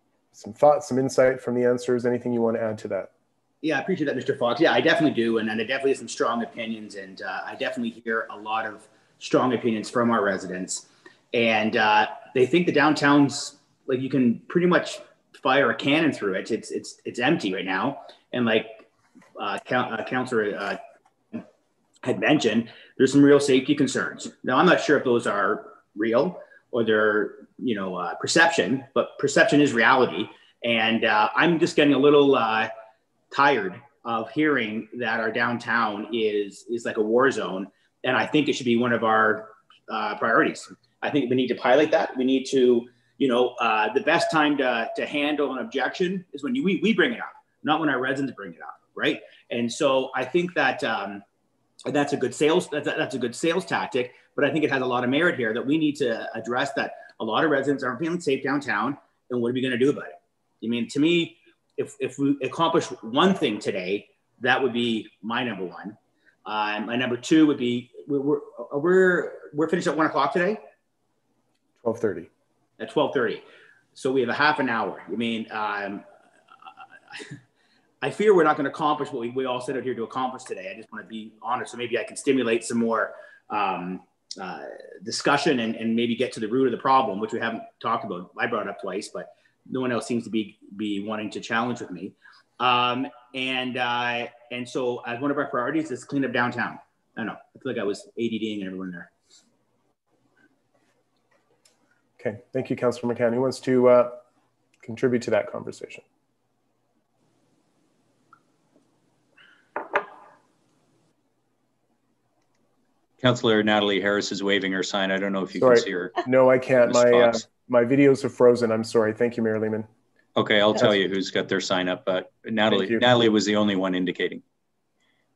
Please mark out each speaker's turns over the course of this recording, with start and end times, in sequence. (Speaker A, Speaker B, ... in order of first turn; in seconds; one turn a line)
Speaker A: 0.3-3.1
Speaker B: 3.6-18.9
Speaker B: 19.4-20.8
Speaker B: 22.0-32.7
Speaker B: 33.3-51.2
Speaker B: 51.9-70.6
Speaker A: 71.8-72.3
Speaker B: 72.8-73.4
Speaker B: 74.0-76.0
Speaker B: 78.0-99.1
Speaker A: 102.2-104.2
Speaker A: 104.8-106.0
Speaker C: 113.2-116.2
Speaker A: 115.6-119.9
Speaker C: 116.8-117.4
Speaker C: 120.4-124.4
Speaker A: 122.7-123.0